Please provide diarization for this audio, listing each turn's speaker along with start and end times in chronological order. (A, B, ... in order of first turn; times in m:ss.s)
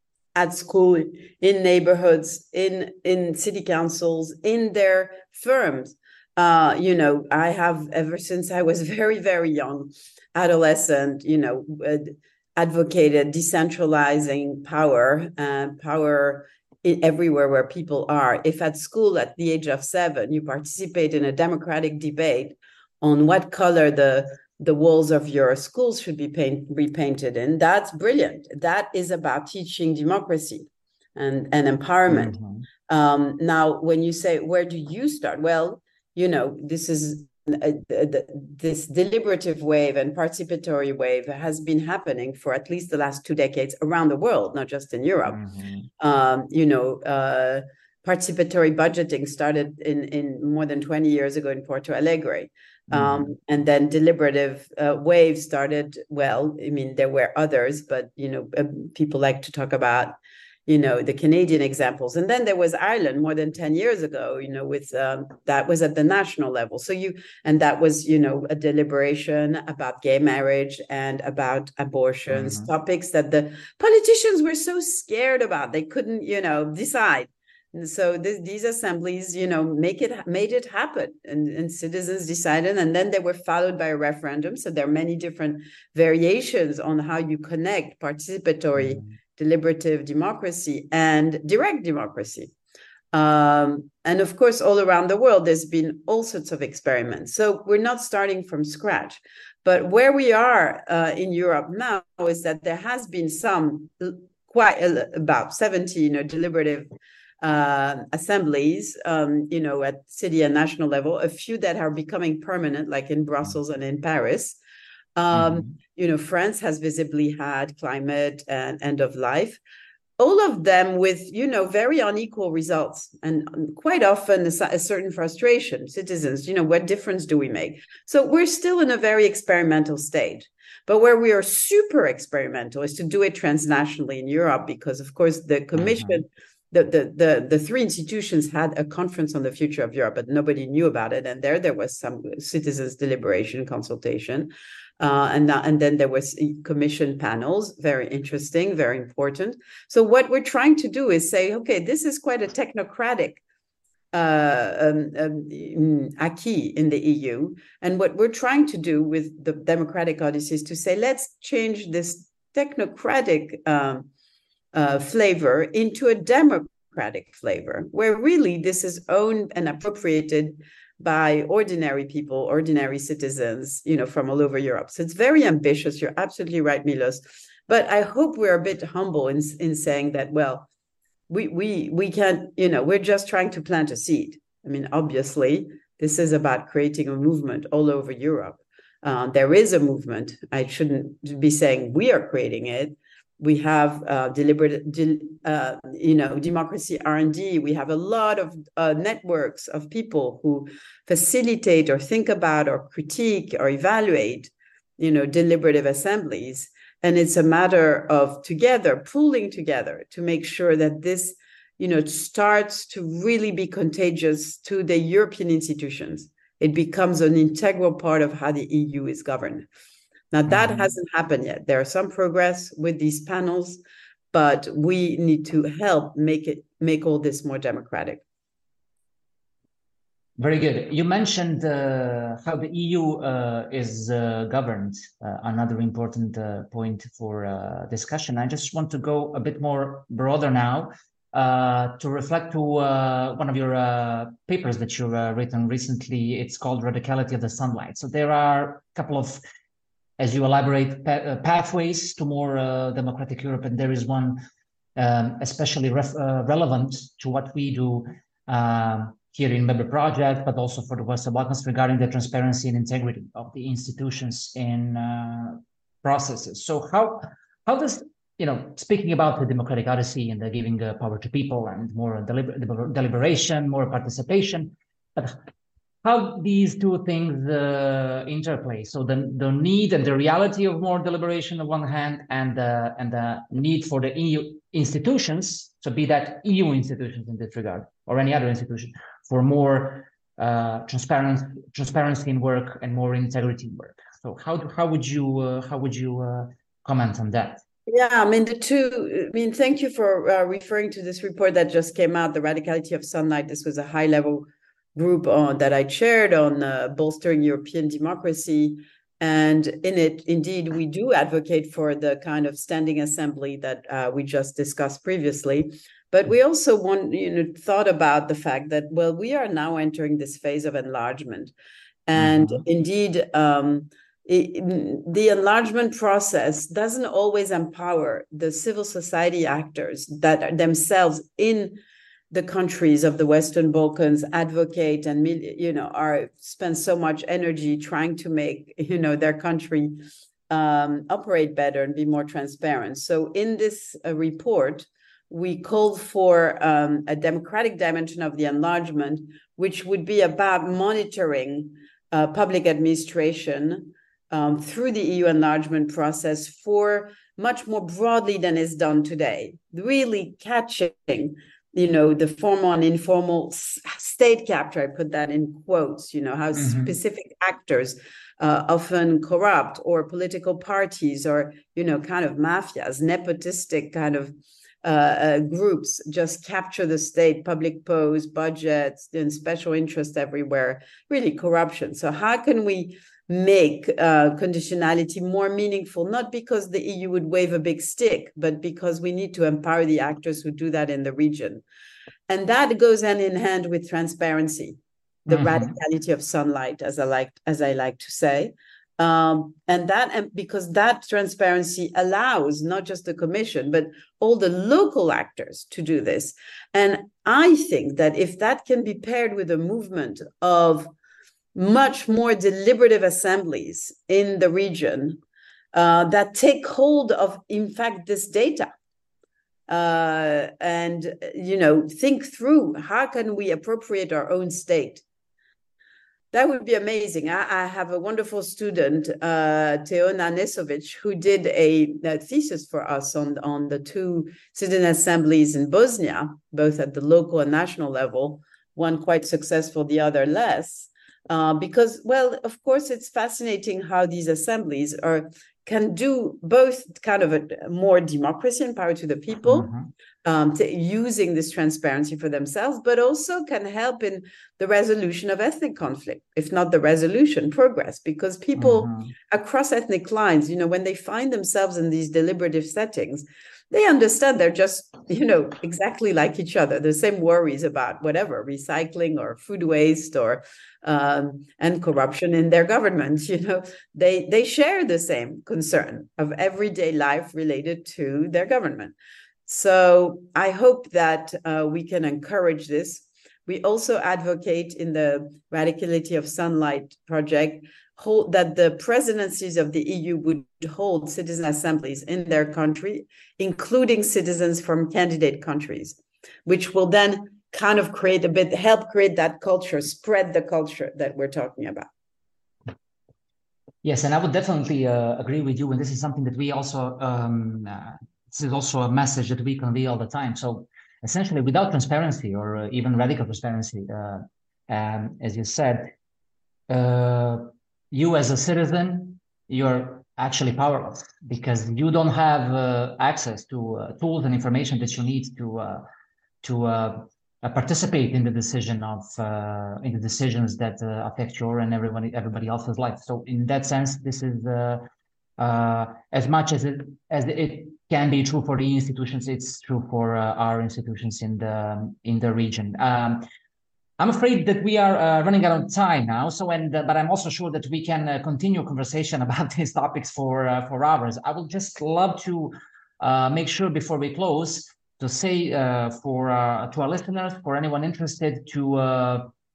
0:00.3-0:32.3 A
0:32.1-0:32.6 B
0:32.9-0:45.4 A
0:45.3-0:45.9 B
0:46.0-1:32.5 A
0:52.9-0:53.3 B
1:12.3-1:12.7 B
1:28.8-1:29.1 B
1:33.1-1:46.9 A
1:47.4-1:54.6 A
1:55.1-1:59.6 A
1:55.3-1:55.6 B
2:00.2-2:33.4 A
2:15.7-2:16.2 B
2:34.1-2:44.1 A
2:44.7-3:00.7 A
3:01.3-3:39.7 A
3:40.3-3:43.8 A
3:40.5-3:40.9 B
3:44.3-3:48.2 A
3:50.4-4:09.4 B
4:10.2-4:14.4 B
4:15.0-4:35.4 B
4:36.0-4:57.6 B
4:57.9-5:21.5 A
5:22.1-5:31.8 A
5:22.2-5:22.6 B
5:32.3-6:31.6 A
6:06.6-6:06.9 B
6:32.3-6:50.9 A
6:35.3-6:35.7 B
6:51.5-6:55.2 A
6:55.7-6:58.7 A
6:59.7-7:05.0 A
7:06.3-7:29.7 A
7:29.5-7:29.9 B
7:30.2-7:58.9 A
7:38.6-7:39.1 B
7:59.5-8:21.9 A
8:23.8-8:35.9 B
8:36.7-8:45.8 B
8:46.4-8:54.8 B
8:55.4-9:03.2 B
9:04.0-9:19.3 B